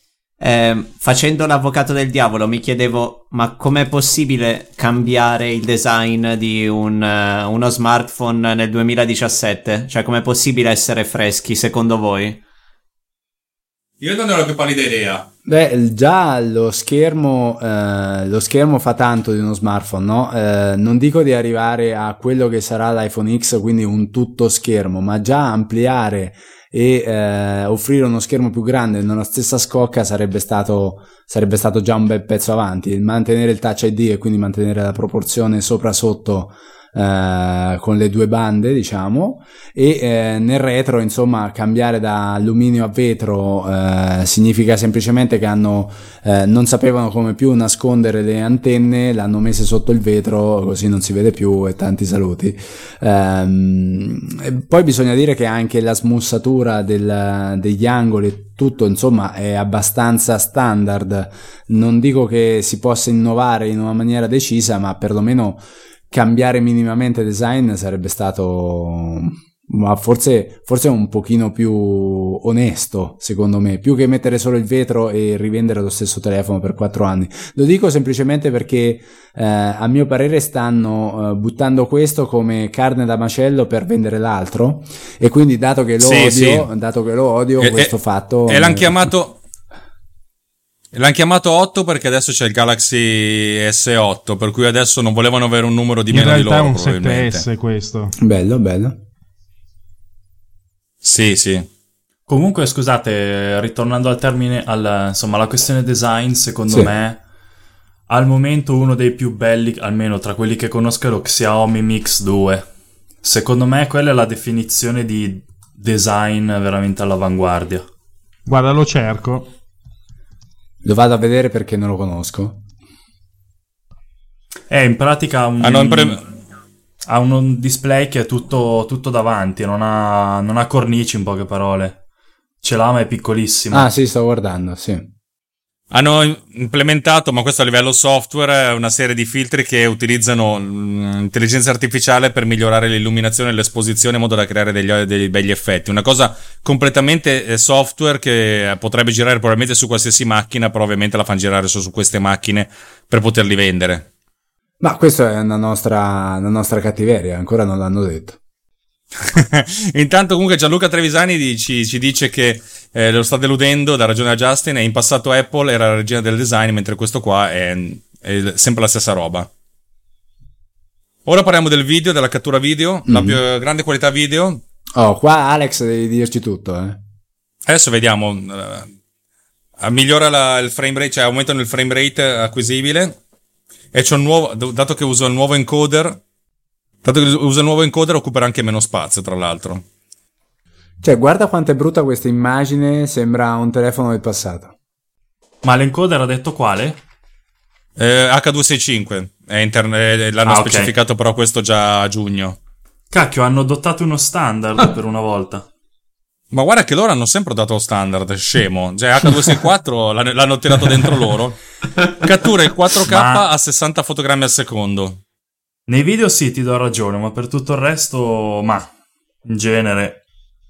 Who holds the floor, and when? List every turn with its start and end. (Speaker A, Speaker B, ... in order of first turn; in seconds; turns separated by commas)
Speaker A: 0.4-12.4, Speaker B: 14.0-15.3, Speaker C: 15.4-89.0, Speaker B: 86.0-86.7, Speaker B: 87.6-87.9, Speaker B: 88.5-89.4, Speaker B: 90.9-97.5, Speaker D: 96.1-98.1, Speaker C: 98.2-99.0, Speaker B: 101.0-101.7, Speaker E: 102.3-107.2, Speaker E: 108.1-112.7, Speaker E: 113.2-117.9, Speaker D: 118.5-119.5, Speaker C: 120.8-122.6, Speaker E: 124.7-126.2, Speaker B: 125.6-126.2, Speaker E: 127.0-132.0, Speaker E: 132.6-133.9, Speaker C: 133.7-135.1, Speaker B: 135.9-154.1, Speaker C: 154.8-158.4, Speaker B: 159.2-169.5, Speaker B: 171.3-174.6, Speaker C: 173.1-173.4, Speaker C: 174.9-177.0, Speaker B: 177.7-178.9, Speaker B: 179.8-183.2, Speaker B: 183.9-186.2, Speaker B: 187.0-189.8, Speaker C: 191.0-194.7, Speaker E: 195.6-197.0, Speaker B: 198.0-202.6, Speaker E: 200.4-200.9, Speaker E: 203.1-205.7, Speaker B: 206.5-211.6, Speaker B: 212.2-215.2, Speaker E: 213.1-213.4, Speaker E: 215.9-218.9, Speaker E: 219.4-220.2